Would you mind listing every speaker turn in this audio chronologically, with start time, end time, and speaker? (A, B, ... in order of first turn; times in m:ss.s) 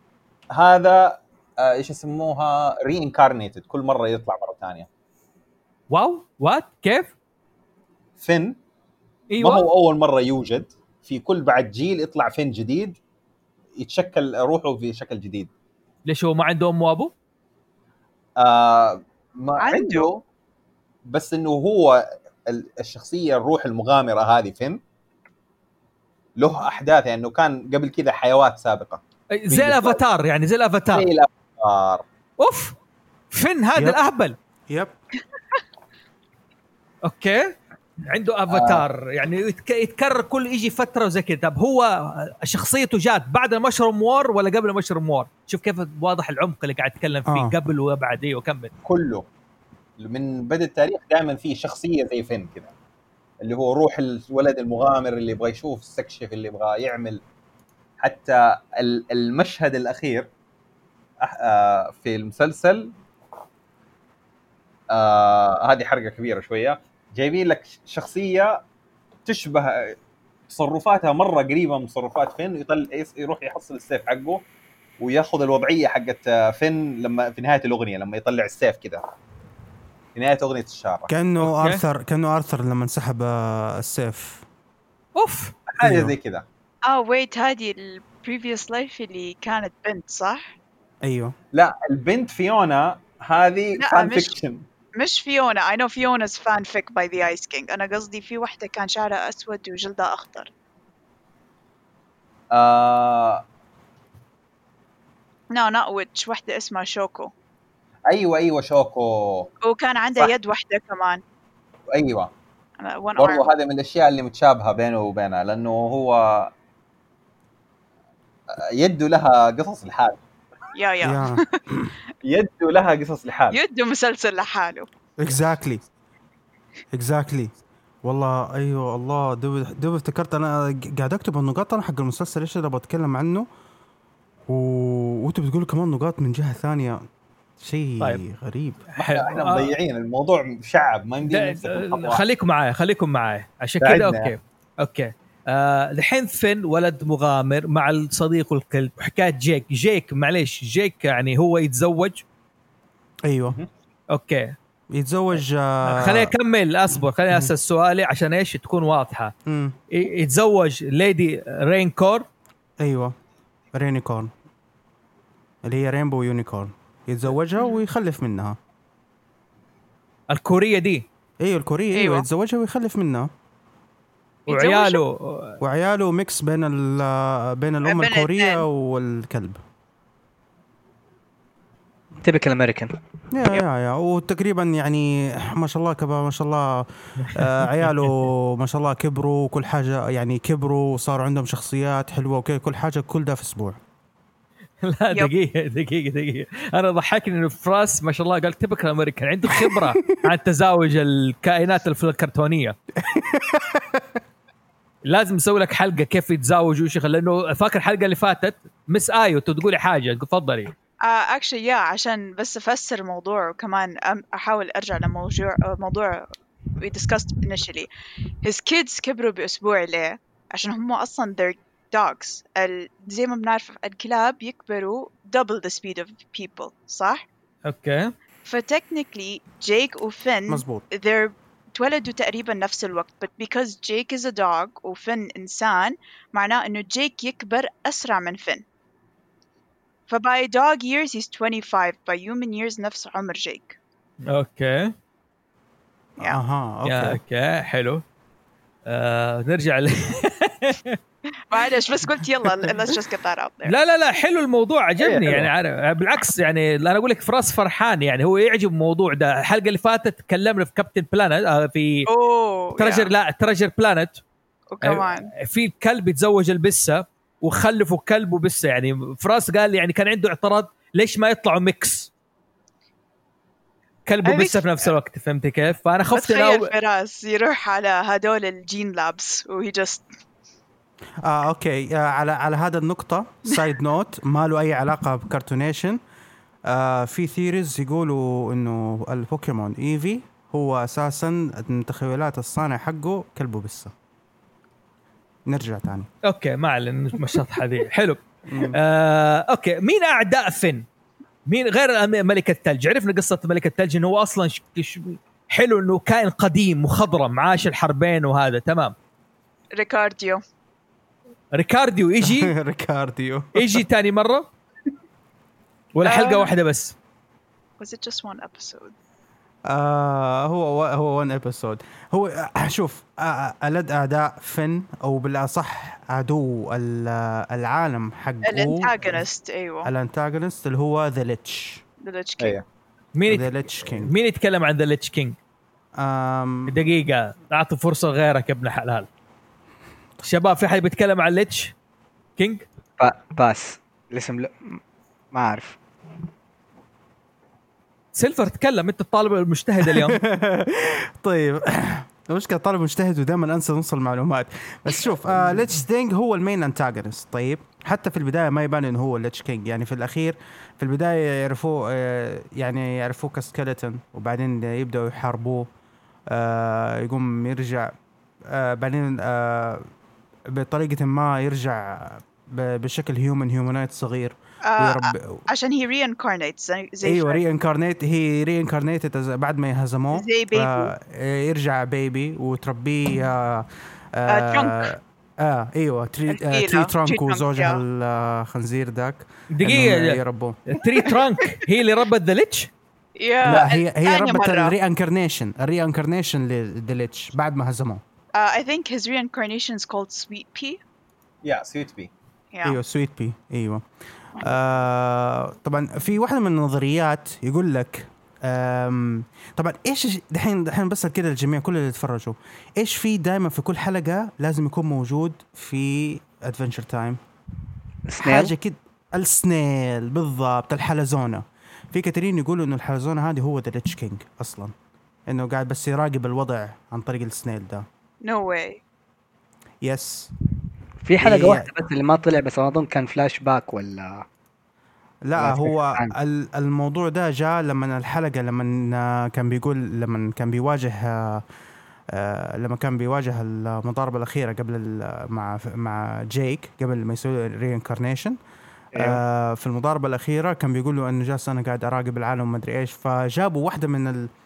0:00.6-0:04.9 A
0:05.9-0:07.1 B
0:08.2-0:08.6 A
0:09.3-0:09.6 B
0:09.4-0:13.0 A
0:13.8-0:15.5 A
0:16.1-0:17.1 B
0:18.4-0:20.2 A
0:19.6-0:20.1 C
0:21.1-0:24.8 A
0:26.4-0:30.0 A
0:29.4-0:31.1 B
0:30.9-0:32.0 A
0:32.4-0:32.8 B
0:33.3-0:34.4 B
0:34.7-0:35.0 D
0:37.1-0:37.5 B
0:38.1-0:48.7 B
0:38.5-0:38.8 A
0:47.3-0:47.5 D
0:48.8-0:49.3 A
0:50.0-0:52.7 A
0:53.4-0:57.2 A
0:58.0-1:00.3 A
1:01.2-1:02.9 A
1:04.9-1:08.6 A
1:09.3-1:10.0 A
1:10.5-1:14.4 A
1:15.0-1:19.0 A
1:20.1-1:21.1 A
1:21.1-1:24.4 D
1:25.2-1:25.5 B
1:25.7-1:26.4 A
1:25.8-1:26.1 D
1:26.9-1:30.5 C
1:31.0-1:31.4 D
1:31.5-1:34.6 A
1:33.8-1:34.3 C
1:35.0-1:40.5 C
1:42.5-1:43.4 A
1:45.5-1:47.3 C
1:48.1-1:49.5 A
1:49.6-1:51.2 C
1:51.9-1:52.3 A
1:52.8-1:53.5 C
1:53.2-1:56.5 A
1:58.6-2:00.2 A
2:00.8-2:01.6 C
2:01.0-2:02.0 D
2:02.2-2:03.6 A
2:03.5-2:04.9 C
2:05.2-2:05.8 D
2:06.9-2:07.5 D
2:08.0-2:13.5 D
2:14.5-2:17.0 D
2:17.6-2:18.8 D
2:18.9-2:19.8 B
2:19.0-2:22.2 A
2:21.3-2:32.2 B
2:23.8-2:24.3 A
2:33.3-2:33.6 D
2:34.1-2:34.6 B
2:34.9-2:36.3 D
2:35.9-2:39.3 B
2:39.5-2:39.8 D
2:39.9-2:42.3 B
2:42.8-2:43.1 D
2:43.7-2:44.3 D
2:45.6-2:48.6 D
2:50.3-2:51.1 B
2:51.4-2:53.3 D
2:51.9-2:52.3 C
2:54.5-2:55.6 B
2:54.5-2:55.0 C
2:55.6-2:59.6 D
2:57.8-2:58.6 C
3:02.2-3:03.0 E
3:03.3-3:13.8 D
3:07.2-3:07.6 B
3:14.8-3:22.8 B
3:19.7-3:20.1 D
3:23.0-3:24.2 D
3:25.1-3:30.7 B
3:31.0-3:37.9 C
3:38.4-3:47.2 C
3:47.6-3:48.1 B
3:48.4-3:58.6 C
3:50.5-3:50.8 D
4:00.1-4:03.8 C
4:04.3-4:04.9 B
4:06.2-4:07.2 D
4:06.9-4:08.0 B
4:08.9-4:11.0 B
4:11.5-4:13.7 C
4:13.7-4:22.1 B
4:15.0-4:15.5 A
4:22.1-4:23.1 C
4:22.8-4:24.2 B
4:24.7-4:25.3 C
4:24.8-4:32.1 B
4:34.1-4:36.7 B
4:34.2-4:34.6 C
4:36.1-4:40.1 C
4:41.2-4:46.0 D
4:46.7-4:53.9 D
4:55.5-4:56.1 D
4:56.3-5:00.8 B
4:58.5-4:58.8 D
5:01.4-5:08.9 B
5:09.8-5:10.4 C
5:11.6-5:12.5 B
5:12.2-5:13.8 D
5:13.6-5:14.5 B
5:16.0-5:17.0 B
5:16.0-5:16.5 C
5:17.8-5:18.9 C
5:19.7-5:29.2 D
5:28.4-5:29.9 C
5:29.8-5:31.8 D
5:32.0-5:32.6 C
5:33.2-5:35.4 B
5:33.3-5:34.1 D
5:36.0-5:36.8 D
5:36.7-5:39.1 B
5:40.2-5:41.7 B
5:42.4-5:42.6 B
5:43.0-5:44.8 E
5:45.3-5:45.8 E
5:48.1-5:50.2 B
5:49.9-6:05.7 D
6:06.3-6:07.9 D
6:08.4-6:09.8 D
6:10.5-6:15.4 D
6:14.6-6:17.4 C
6:17.0-6:30.6 D
6:20.1-6:20.9 C
6:24.3-6:24.9 C
6:26.3-6:27.8 C
6:29.5-6:32.7 B
6:33.2-6:34.7 C
6:33.4-6:38.0 D
6:38.4-6:40.8 C
6:41.4-6:42.1 A
6:42.5-6:42.8 C
6:42.6-6:43.8 D
6:44.4-6:57.2 D
6:58.1-6:58.5 E
6:58.2-7:04.7 D
7:05.3-7:07.8 D
7:08.2-7:08.8 C
7:09.8-7:10.3 D
7:11.0-7:14.2 E
7:11.2-7:11.7 D
7:15.3-7:21.4 D
7:15.4-7:16.1 E
7:22.1-7:28.4 D
7:28.9-7:29.2 E
7:29.0-7:34.3 D